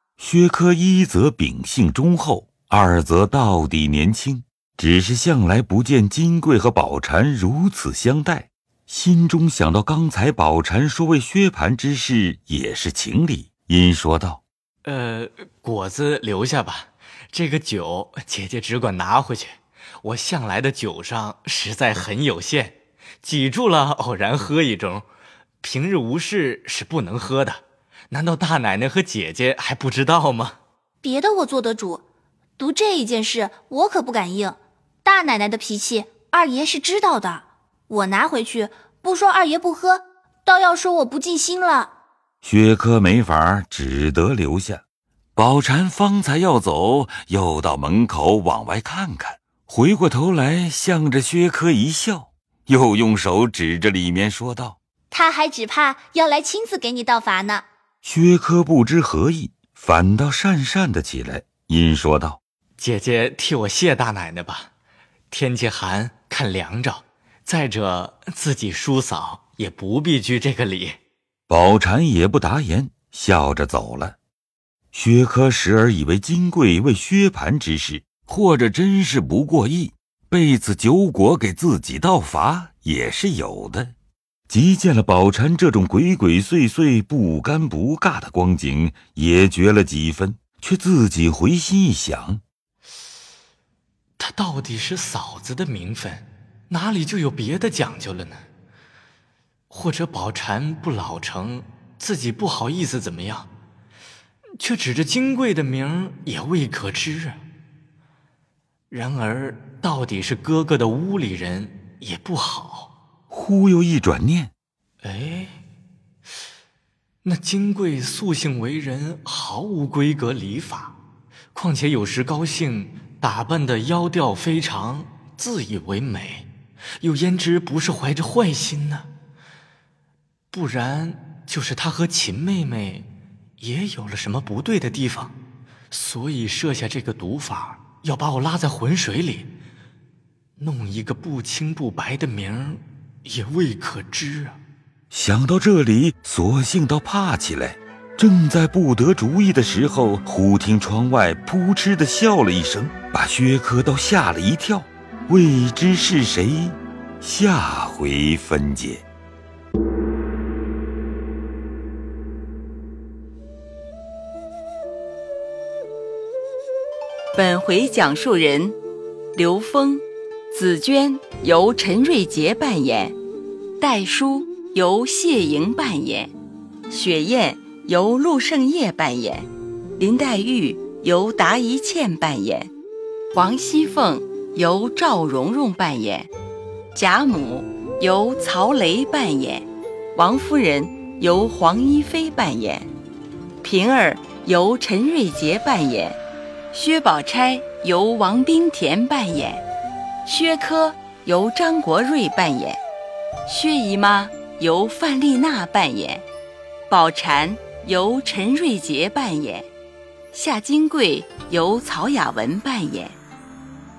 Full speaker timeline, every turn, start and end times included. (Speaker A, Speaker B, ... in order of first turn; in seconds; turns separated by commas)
Speaker A: 0.2-14.4, Speaker B: 14.9-25.1, Speaker B: 25.6-30.6, Speaker C: 31.0-32.0, Speaker C: 32.6-41.9, Speaker A: 42.4-44.8, Speaker A: 45.4-54.8, Speaker C: 55.1-57.6, Speaker A: 58.0-62.4, Speaker B: 62.8-64.7, Speaker B: 65.3-71.0, Speaker A: 71.5-74.2, Speaker A: 74.9-83.9, Speaker A: 84.5-92.4, Speaker B: 94.2-98.4, Speaker B: 99.7-103.5, Speaker B: 104.6-107.4, Speaker B: 108.9-112.9, Speaker A: 113.3-114.5, Speaker B: 115.0-115.5, Speaker B: 117.2-121.0, Speaker B: 121.5-126.5, Speaker B: 127.0-129.1, Speaker B: 130.5-133.1, Speaker B: 133.6-135.3, Speaker B: 135.9-139.5, Speaker B: 140.6-144.6, Speaker A: 145.1-159.0, Speaker D: 167.3-168.8, Speaker D: 169.3-173.2, Speaker D: 173.8-176.3, Speaker D: 176.9-182.7, Speaker D: 183.3-186.3, Speaker D: 186.9-192.9, Speaker D: 193.6-196.2, Speaker D: 196.7-199.7, Speaker D: 200.3-202.8, Speaker D: 203.5-206.3, Speaker D: 206.9-209.7, Speaker D: 210.3-213.2